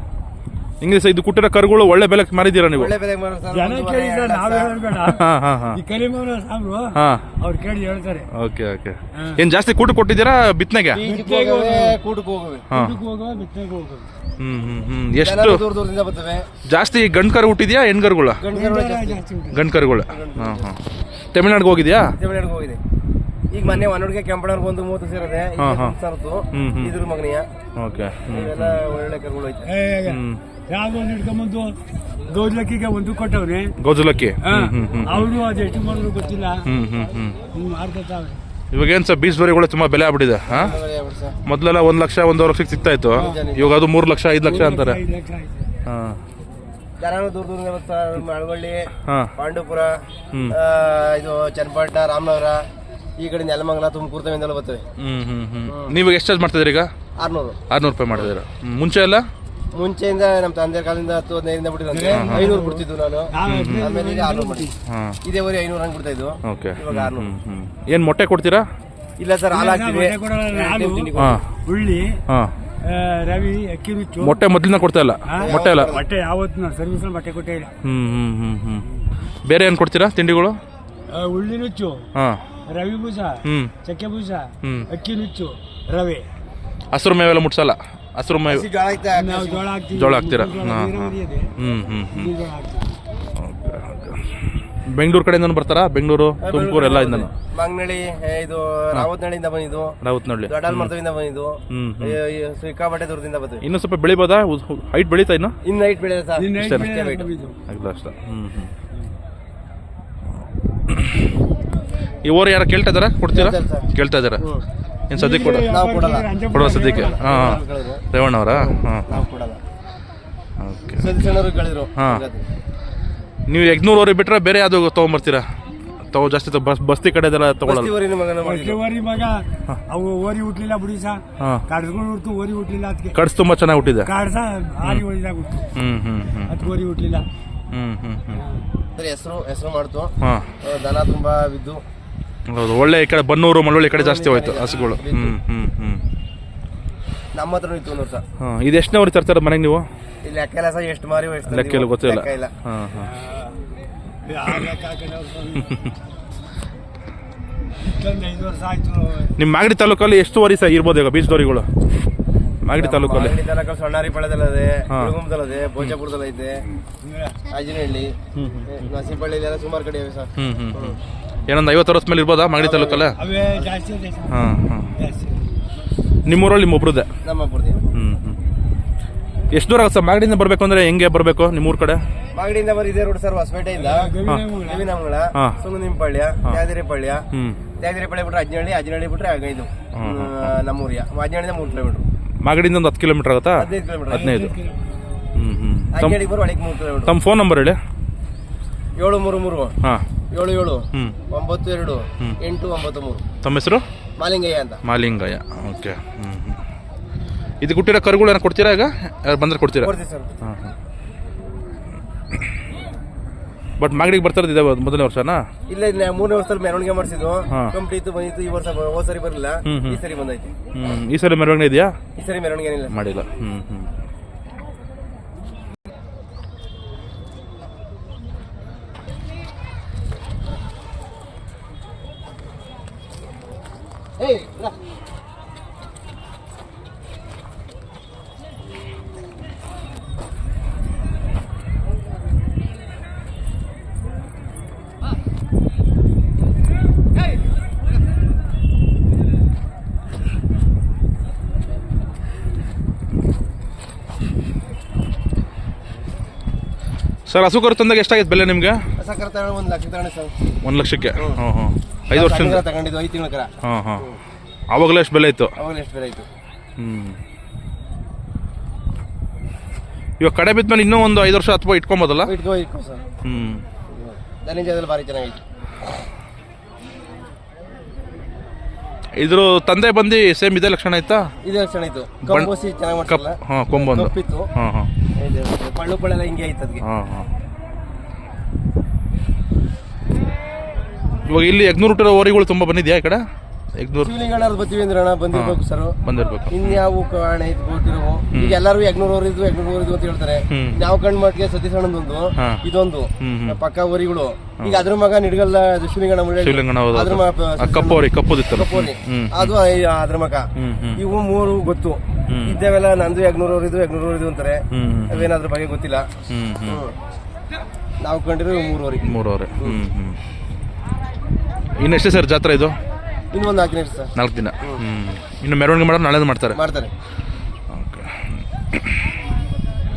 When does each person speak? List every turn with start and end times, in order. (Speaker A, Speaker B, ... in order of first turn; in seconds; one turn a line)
Speaker A: 0.8-2.9
Speaker B: 2.7-4.9
Speaker C: 3.5-8.3
Speaker A: 5.0-5.8
Speaker A: 6.9-7.2
Speaker A: 8.3-11.0
Speaker C: 9.1-9.4
Speaker B: 10.9-12.7
Speaker C: 11.0-12.0
Speaker A: 12.7-13.0
Speaker C: 12.7-14.1
Speaker A: 14.4-15.6
Speaker B: 15.2-16.5
Speaker A: 16.7-18.4
Speaker B: 18.4-19.2
Speaker C: 18.5-19.6
Speaker A: 19.5-20.8
Speaker B: 20.1-20.7
Speaker A: 21.3-22.1
Speaker B: 22.1-22.8
Speaker B: 23.5-27.5
Speaker A: 25.6-25.9
Speaker A: 26.5-26.9
Speaker A: 27.8-28.8
Speaker B: 28.3-29.7
Speaker C: 29.7-33.8
Speaker A: 30.0-30.4
Speaker A: 33.8-35.3
Speaker C: 34.4-36.7
Speaker A: 36.6-37.4
Speaker C: 37.5-38.4
Speaker A: 38.7-40.7
Speaker B: 40.5-41.4
Speaker A: 41.5-45.0
Speaker C: 43.1-43.4
Speaker B: 43.1-43.8
Speaker C: 44.4-45.7
Speaker A: 45.9-46.2
Speaker B: 47.0-52.6
Speaker A: 49.0-49.3
Speaker B: 53.2-54.8
Speaker A: 55.0-56.9
Speaker B: 55.7-55.9
Speaker B: 57.2-57.6
Speaker A: 57.7-59.2
Speaker B: 59.7-64.7
Speaker C: 61.9-64.7
Speaker A: 62.1-62.5
Speaker A: 63.5-63.9
Speaker A: 64.9-65.2
Speaker B: 65.2-67.3
Speaker A: 66.4-68.7
Speaker B: 69.2-71.4
Speaker C: 69.5-71.1
Speaker A: 71.2-71.4
Speaker C: 71.7-72.2
Speaker A: 72.3-72.5
Speaker C: 72.8-74.4
Speaker A: 74.2-76.0
Speaker C: 75.2-77.7
Speaker B: 75.4-76.0
Speaker A: 77.8-78.9
Speaker A: 79.4-80.6
Speaker C: 81.1-82.1
Speaker A: 82.2-82.4
Speaker C: 82.7-86.3
Speaker A: 83.4-83.7
Speaker A: 84.6-84.9
Speaker A: 86.9-88.7
Speaker B: 88.4-89.7
Speaker C: 89.1-91.5
Speaker A: 89.9-92.3
Speaker C: 92.1-92.9
Speaker A: 93.4-97.3
Speaker B: 96.4-103.6
Speaker A: 100.0-100.9
Speaker A: 101.7-102.2
Speaker A: 103.6-105.6
Speaker B: 105.6-107.3
Speaker C: 106.4-107.6
Speaker A: 106.6-106.9
Speaker A: 107.7-108.7
Speaker A: 110.9-111.2
Speaker A: 112.2-114.5
Speaker B: 113.3-113.9
Speaker C: 114.4-117.4
Speaker A: 115.1-115.7
Speaker B: 115.7-119.6
Speaker A: 116.5-119.2
Speaker A: 120.6-121.1
Speaker B: 121.0-122.4
Speaker A: 123.5-125.5
Speaker A: 126.1-127.9
Speaker B: 127.6-128.8
Speaker C: 128.4-133.2
Speaker A: 131.4-131.6
Speaker A: 133.1-134.1
Speaker C: 134.0-135.7
Speaker A: 135.8-136.7
Speaker C: 136.5-137.2
Speaker A: 137.7-138.4
Speaker C: 138.3-138.6
Speaker B: 139.0-141.8
Speaker A: 140.2-140.5
Speaker A: 142.5-146.0
Speaker B: 143.9-145.4
Speaker B: 147.3-148.2
Speaker A: 148.4-149.9
Speaker B: 150.2-152.5
Speaker A: 151.5-153.1
Speaker C: 153.0-153.6
Speaker C: 154.2-155.8
Speaker C: 157.8-159.4
Speaker A: 159.4-161.7
Speaker A: 162.6-163.4
Speaker B: 162.7-166.6
Speaker C: 167.0-167.4
Speaker B: 167.5-171.0
Speaker A: 168.3-168.8
Speaker A: 170.4-173.2
Speaker B: 172.6-173.1
Speaker C: 173.2-174.4
Speaker A: 174.3-174.9
Speaker C: 174.9-175.4
Speaker A: 176.2-177.1
Speaker B: 177.2-177.8
Speaker A: 177.9-178.4
Speaker A: 179.5-182.0
Speaker B: 182.3-187.2
Speaker C: 183.8-184.9
Speaker A: 187.3-187.6
Speaker B: 187.8-192.1
Speaker A: 189.9-190.5
Speaker A: 192.4-194.6
Speaker B: 193.6-194.3
Speaker C: 194.1-195.2
Speaker A: 195.3-196.2
Speaker B: 195.9-197.1
Speaker A: 197.1-197.8
Speaker B: 199.0-199.8
Speaker B: 200.3-203.2
Speaker A: 200.9-201.2
Speaker A: 203.4-203.8
Speaker B: 204.2-204.8
Speaker A: 204.8-206.6
Speaker A: 207.6-210.7
Speaker B: 209.8-210.3
Speaker A: 213.8-215.4
Speaker B: 215.7-220.5
Speaker A: 217.5-217.8
Speaker A: 219.6-220.0
Speaker A: 220.7-222.0
Speaker B: 222.2-223.0
Speaker A: 222.9-223.9
Speaker B: 234.2-234.8
Speaker A: 257.3-258.8
Speaker B: 259.0-260.3
Speaker A: 260.6-262.6
Speaker B: 261.2-261.4
Speaker B: 262.1-264.2
Speaker A: 263.6-264.1
Speaker A: 264.7-265.5
Speaker B: 265.6-266.3
Speaker A: 266.8-267.2
Speaker A: 270.2-272.3
Speaker B: 272.2-273.1
Speaker A: 273.2-273.6
Speaker B: 273.9-275.4
Speaker A: 279.2-281.3
Speaker B: 281.4-284.5
Speaker A: 282.2-282.5
Speaker A: 283.1-284.9
Speaker B: 285.2-286.8
Speaker A: 286.8-287.3
Speaker A: 291.2-293.2
Speaker A: 293.8-294.1
Speaker B: 294.0-295.9
Speaker A: 295.3-296.8
Speaker B: 296.5-316.1
Speaker A: 300.5-300.8
Speaker A: 302.4-302.6
Speaker A: 303.2-303.6
Speaker A: 306.4-309.5
Speaker A: 310.6-311.0
Speaker A: 312.3-312.6
Speaker A: 314.7-315.3
Speaker A: 316.3-316.8
Speaker B: 316.6-316.9
Speaker B: 318.0-319.8
Speaker A: 319.0-320.2
Speaker A: 321.8-322.8
Speaker B: 323.3-324.1
Speaker A: 324.1-326.6
Speaker B: 326.6-326.9
Speaker A: 327.7-328.9